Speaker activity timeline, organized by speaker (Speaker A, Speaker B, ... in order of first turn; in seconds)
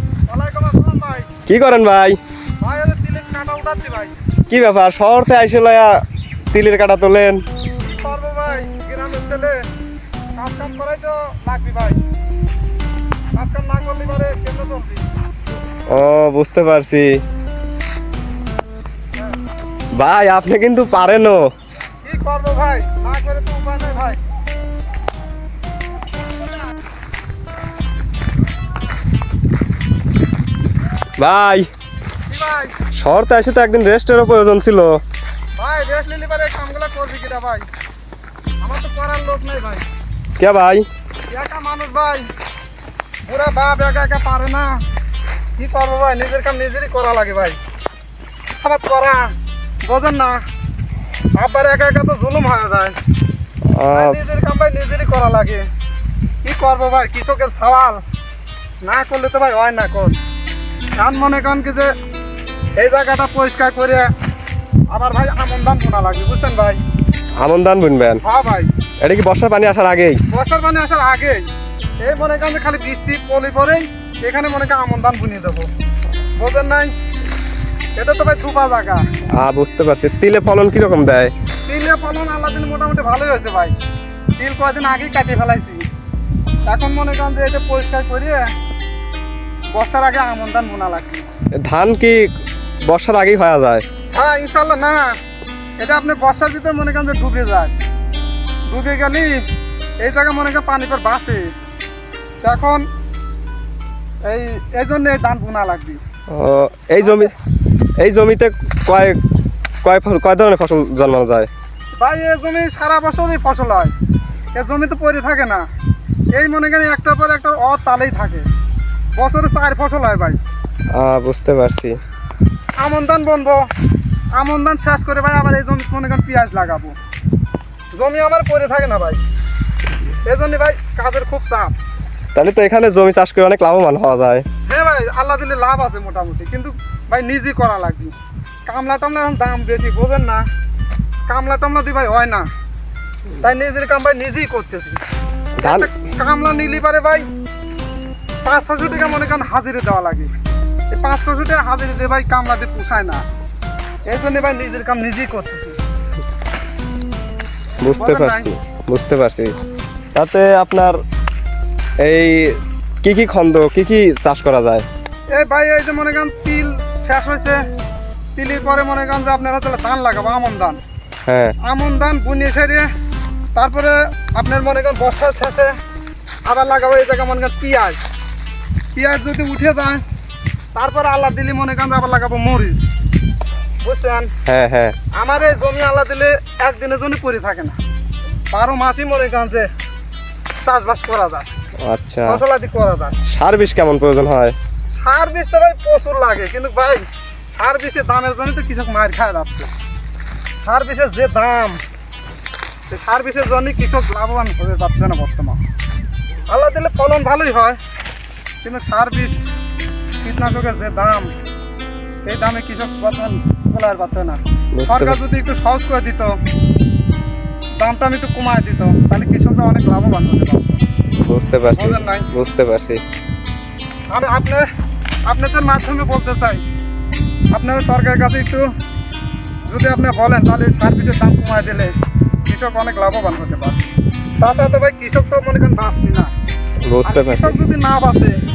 Speaker A: 0.3-1.3, 2.6-4.1, 8.0-9.6, 10.3-12.0, 13.3-15.1, 22.0-24.2, 32.3-32.7, 35.6-37.6, 38.6-39.8, 41.3-42.3, 43.3-44.8, 45.6-47.6, 48.5-49.3, 49.8-50.4, 51.4-52.9, 53.9-55.6, 56.4-58.0, 58.8-60.2, 61.0-61.9, 62.8-64.1, 64.9-66.8, 68.2-68.7, 70.3-71.5, 72.0-75.7, 76.4-76.9, 78.0-79.0, 81.7-83.7, 84.4-85.8, 86.7-88.5, 89.7-91.3, 94.1-95.1, 95.8-97.7, 98.7-99.4, 100.0-101.4, 102.4-102.8, 104.2-106.0, 107.0-107.3, 112.0-113.9, 114.5-115.7, 116.3-118.4, 119.2-120.4, 122.8-123.6, 124.3-126.9, 128.0-129.2, 130.2-131.7, 134.7-138.1, 138.7-140.4, 141.3-142.5, 143.4-145.0, 145.6-147.3, 148.4-150.3, 150.9-153.2, 154.1-155.8, 157.9-158.5, 165.3-167.6, 168.3-170.8, 171.6-172.9, 173.5-175.7, 176.5-178.0, 178.9-180.0, 180.7-182.8, 183.8-184.3, 185.1-187.8, 188.5-189.7, 190.6-191.5, 192.2-193.2, 194.9-199.7, 200.6-201.8, 202.9-205.6, 206.5-207.8, 208.6-209.4, 210.2-211.3, 212.2-216.3, 217.8-220.8, 221.8-222.3, 224.1-224.6, 225.3-226.6, 227.5-228.7, 229.7-231.9, 232.4-233.8, 234.4-236.3, 237.0-238.3
Speaker B: 1.5-2.2, 4.5-6.0, 6.5-7.4, 15.9-17.2, 19.9-21.4, 31.2-31.7, 32.9-35.0, 40.4-40.9, 53.7-54.2, 67.4-68.2, 69.0-70.2, 79.4-81.3, 91.6-92.2, 92.9-93.8, 106.3-107.3, 108.0-109.2, 109.8-111.5, 120.9-122.0, 132.3-134.4, 145.6-145.9, 157.8-159.5, 160.1-161.0, 162.0-164.8, 171.3-171.6, 184.5-184.9, 191.8-192.4, 193.3-194.6, 214.8-215.2, 221.2-223.0, 236.8-237.6